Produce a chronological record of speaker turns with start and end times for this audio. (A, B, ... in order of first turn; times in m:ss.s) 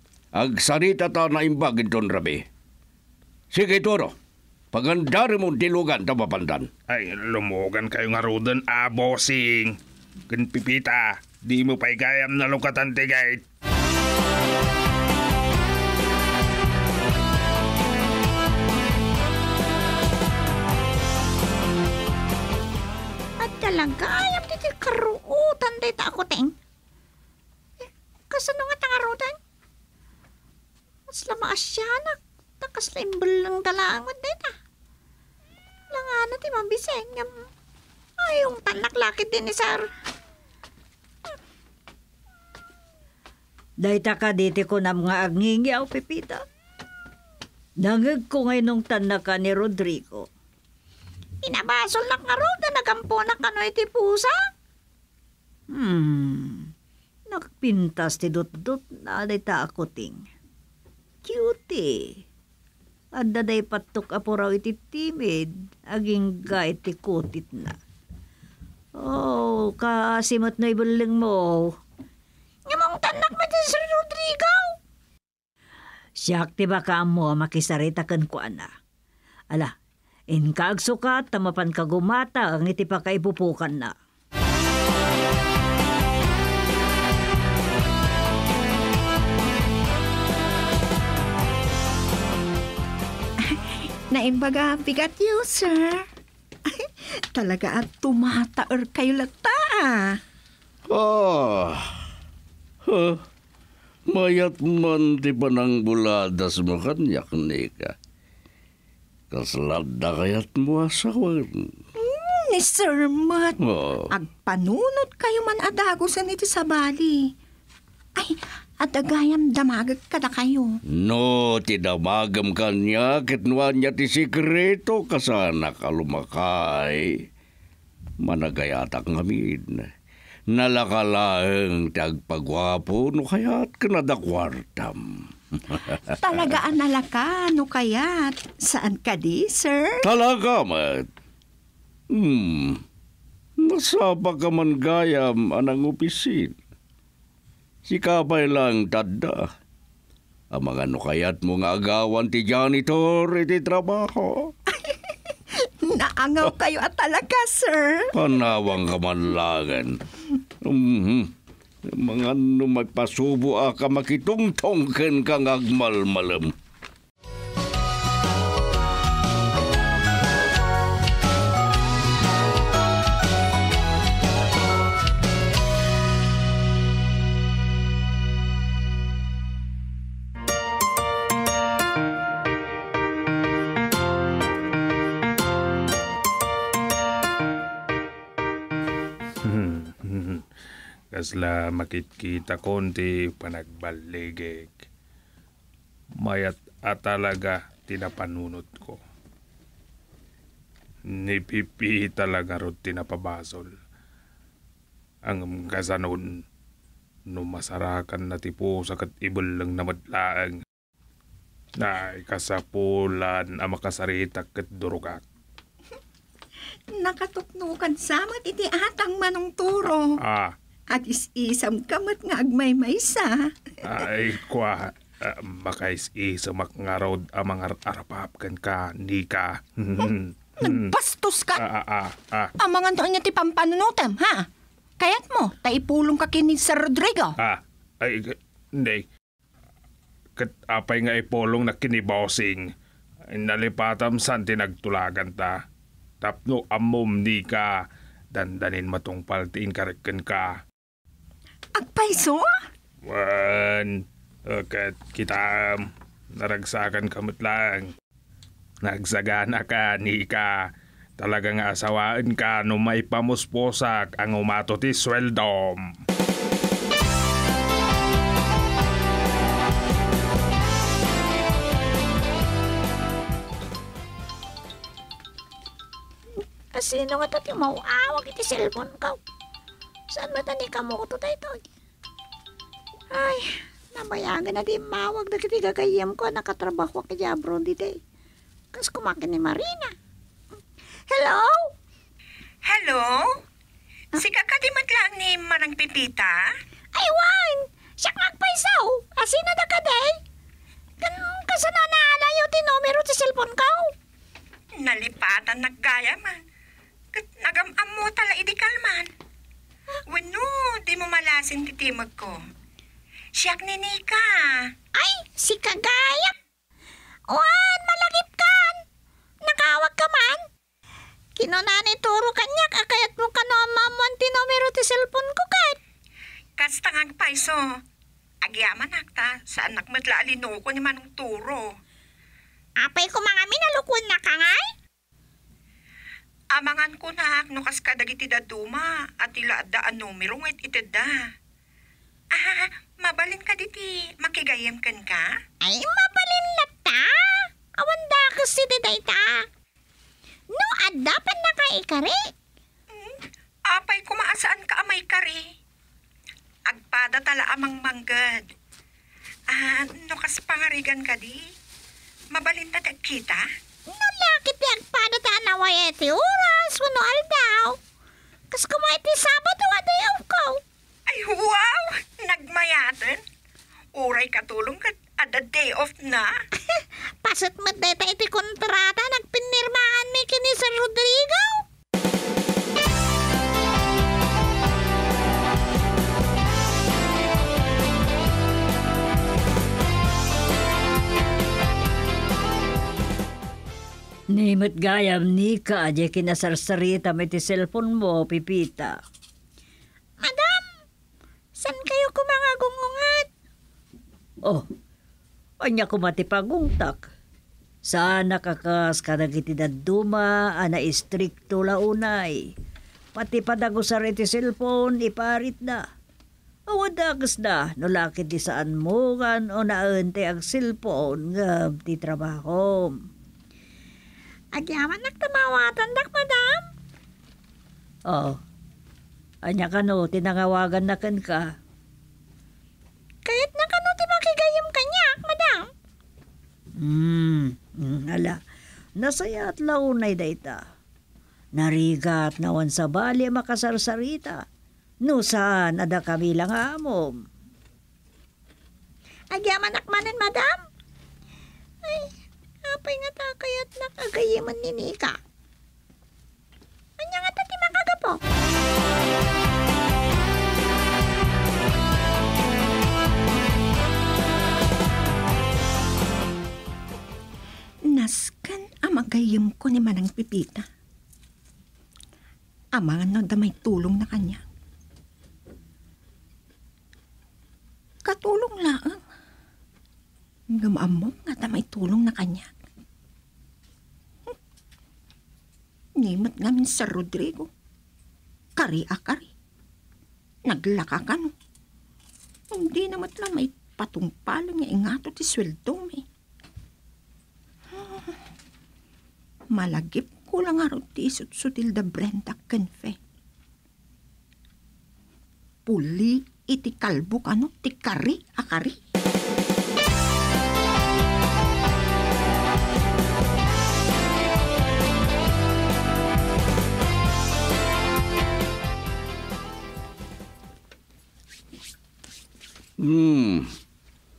0:00.3-0:02.4 A
0:03.5-0:04.1 A
0:04.7-0:06.7 A
0:06.9-0:09.8 B
0:10.3-0:13.4 B
0:23.4-0:26.5 C
0:27.8-0:29.4 C
0:31.1-0:34.5 C
0:35.9-0:37.3 C
0:38.2-0:39.9 C
0:43.8-0:46.4 D
0:47.8-0:50.3 D
0:51.4-0:54.4 C
0:55.7-0:56.7 D
0:57.3-1:00.2 D
1:01.2-1:02.2 D
1:03.2-1:07.8 D
1:09.0-1:11.7 D
1:12.7-1:14.8 C
1:16.2-1:18.7 D
1:20.3-1:23.9 D
1:33.4-1:36.1 E
1:36.6-1:40.2 E
1:40.9-1:41.9 A
1:42.8-1:43.2 A
1:44.1-1:47.9 A
1:49.3-1:51.7 A
1:52.0-1:53.6 E
1:53.6-1:54.1 A
1:54.1-1:57.2 E
1:58.2-2:00.7 E
2:00.9-2:07.2 A
2:08.2-2:09.9 A
2:10.5-2:16.1 A
2:16.1-2:20.1 E
2:20.0-2:21.1 A
2:22.1-2:22.8 A
2:23.6-2:26.5 A
2:27.8-2:29.5 A
2:30.5-2:34.5 A
2:34.7-2:38.1 E
2:38.1-2:40.0 A
2:40.6-2:41.3 A
2:41.9-2:46.5 A
3:09.4-3:10.5 B
3:11.1-3:14.8 B
3:16.2-3:19.0 B
3:21.1-3:23.7 B
3:25.2-3:26.4 B
3:27.3-3:30.6 B
3:31.8-3:35.2 B
3:36.9-3:40.2 E
3:40.2-3:40.5 B
3:40.9-3:43.5 E
3:43.8-3:50.9 B
3:50.0-3:51.6 E
3:51.6-3:52.5 B
3:52.6-3:54.5 E
3:55.0-3:57.4 E
3:57.4-3:59.1 B
4:00.4-4:02.7 B
4:03.3-4:05.6 B
4:06.2-4:10.6 B
4:11.7-4:12.5 E
4:13.0-4:17.9 B
4:18.8-4:25.9 B
4:36.7-4:39.2 C
4:40.1-4:41.6 C
4:43.1-4:48.0 C
4:48.7-4:49.9 C
4:51.1-4:51.7 C
4:52.6-4:53.4 E
4:54.2-4:56.4 E
4:56.9-5:00.2 C
5:01.0-5:03.9 C
5:04.8-5:06.4 E
5:07.1-5:09.1 E
5:10.1-5:12.4 E
5:13.3-5:14.7 E
5:14.9-5:16.3 C
5:17.3-5:18.8 C
5:19.4-5:20.4 C
5:21.4-5:25.8 C
5:26.6-5:27.6 E
5:28.4-5:31.8 E
5:32.8-5:34.7 C
5:36.5-5:41.2 E
5:42.3-5:45.3 E
5:45.6-5:49.4 C
5:50.5-5:52.3 C
5:52.9-5:55.4 E
5:56.7-5:58.5 E
5:59.5-6:01.4 E
6:02.3-6:03.4 E
6:03.9-6:07.8 C
6:08.5-6:10.6 C
6:11.1-6:13.2 E
6:13.9-6:16.3 E
6:16.7-6:21.6 C
6:34.3-6:38.9 D
6:40.2-6:40.7 C
6:41.6-6:43.3 C
6:45.6-6:47.1 D
6:47.8-6:52.5 D
6:53.1-6:55.8 D
6:56.7-7:03.0 D
7:04.5-7:06.7 C
7:08.1-7:08.4 D
7:09.4-7:11.5 D
7:13.2-7:15.7 C
7:16.8-7:18.4 D
7:19.0-7:20.6 D
7:21.6-7:24.4 D
7:25.0-7:27.2 D
7:29.3-7:30.6 C
7:31.8-7:32.1 C
7:32.6-7:35.2 C
7:37.0-7:38.2 C
7:47.8-7:50.7 E
7:52.7-7:54.4 E
7:58.0-7:59.0 E
8:00.5-8:02.5 E
8:06.0-8:07.5 E
8:08.6-8:09.3 E
8:10.4-8:11.3 E
8:12.5-8:16.0 E
8:17.7-8:18.2 E
8:19.5-8:23.0 E
8:25.6-8:28.8 E
8:42.8-8:43.5 A